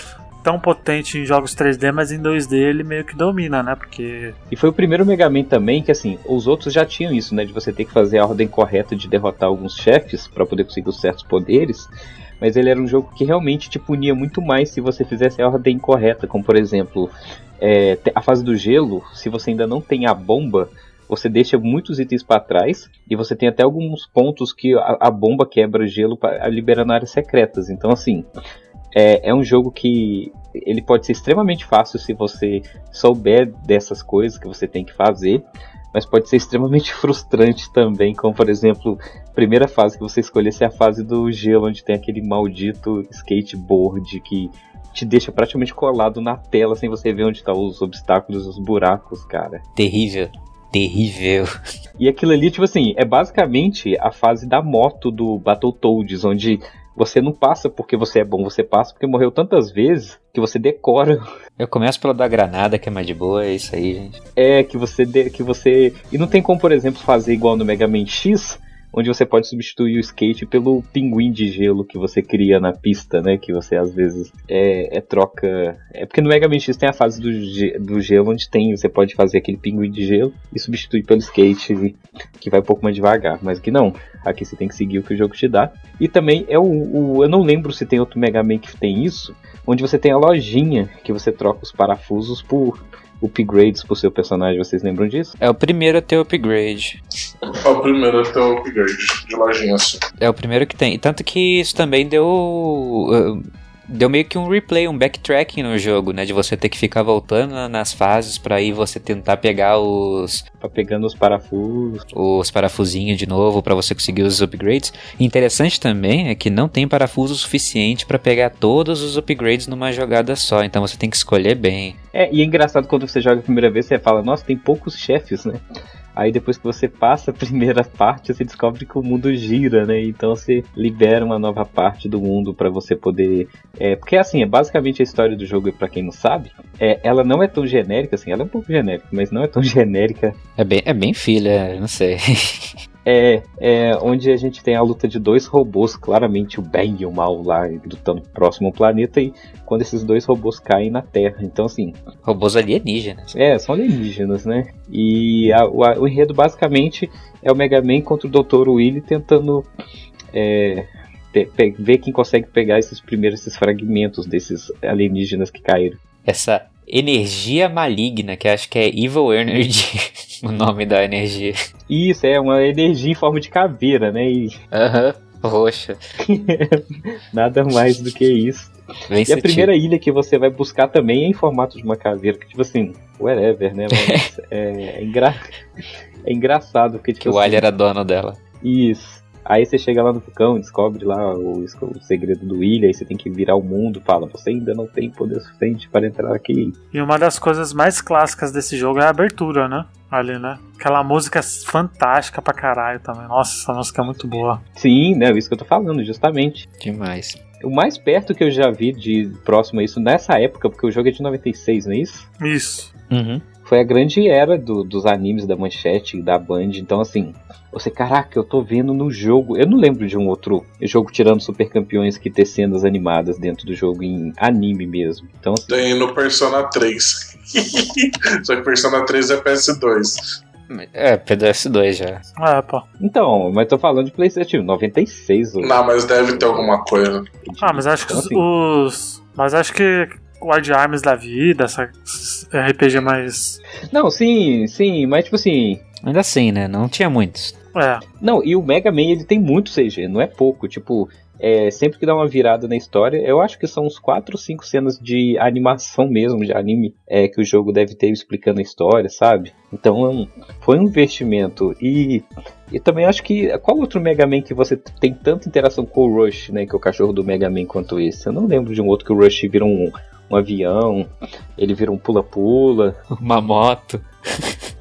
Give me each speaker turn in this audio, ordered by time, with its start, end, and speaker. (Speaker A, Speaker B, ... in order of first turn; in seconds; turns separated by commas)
Speaker A: 0.4-4.3, Speaker B: 4.5-28.3, Speaker B: 28.9-49.6, Speaker C: 49.8-51.5, Speaker B: 52.0-61.2, Speaker C: 61.6-64.2, Speaker B: 64.3-95.3, Speaker C: 95.4-96.9, Speaker D: 97.6-100.0, Speaker C: 100.2-110.4, Speaker B: 110.6-112.0, Speaker C: 112.1-122.0, Speaker B: 122.1-125.6, Speaker B: 126.1-140.4, Speaker C: 140.6-142.7, Speaker B: 143.0-152.0, Speaker C: 152.2-153.3, Speaker B: 153.3-159.7, Speaker B: 160.3-166.0, Speaker C: 166.2-171.5, Speaker B: 171.9-174.5, Speaker C: 174.7-176.0, Speaker B: 176.2-178.7, Speaker C: 179.1-179.7, Speaker B: 179.3-185.4, Speaker C: 183.9-184.2, Speaker B: 186.2-187.6, Speaker C: 187.2-188.4, Speaker B: 188.6-196.8, Speaker A: 196.9-204.6, Speaker B: 204.8-206.6, Speaker C: 206.8-207.4, Speaker B: 207.6-212.2, Speaker A: 212.4-212.9, Speaker C: 213.1-213.4, Speaker B: 213.6-225.9, Speaker D: 225.7-230.4, Speaker C: 230.7-232.2, Speaker A: 232.4-232.8, Speaker B: 233.0-236.8, Speaker D: 235.6-237.2, Speaker B: 237.4-238.4, Speaker A: 237.6-243.6, Speaker B: 243.9-245.8, Speaker C: 246.0-247.5, Speaker A: 247.7-248.0, Speaker B: 248.2-272.9, Speaker C: 273.1-274.5